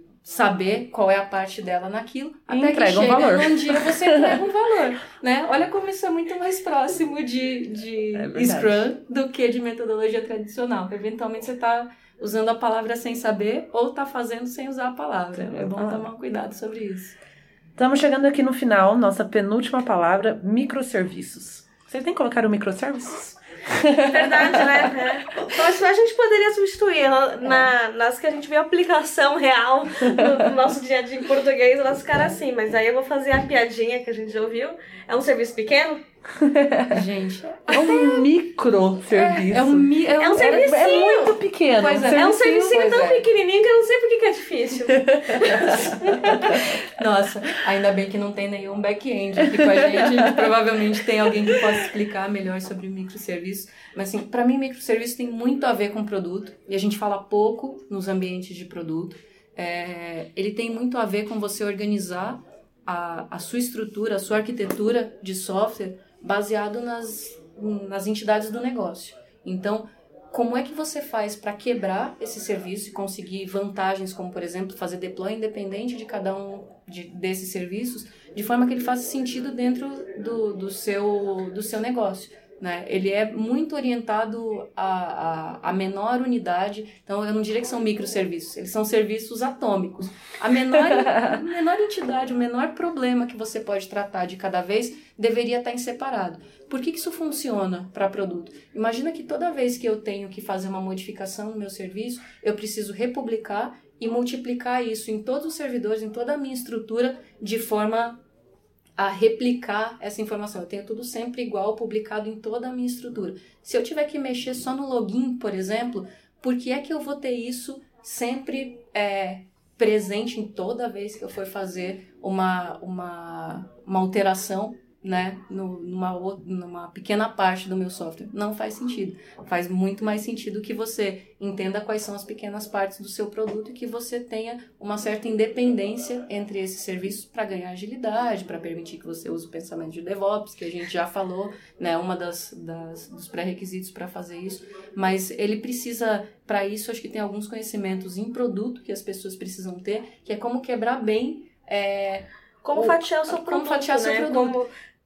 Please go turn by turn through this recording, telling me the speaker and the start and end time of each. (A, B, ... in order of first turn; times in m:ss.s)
0:00.2-0:17.2 A
0:02.5-0:04.4 B
0:08.1-0:08.8 B
0:15.3-0:16.1 B
0:17.8-0:25.0 B
0:24.0-0:36.0 C
0:36.4-0:37.0 B
0:36.9-0:38.3 A
0:37.7-0:42.4 B
0:39.1-0:41.1 A
0:40.2-0:41.4 C
0:41.8-0:43.2 A
0:42.0-0:46.6 C
0:45.0-0:45.8 B
0:45.5-1:48.2 A
0:49.5-0:50.4 B
1:49.0-2:34.6 A
2:32.6-2:34.7 C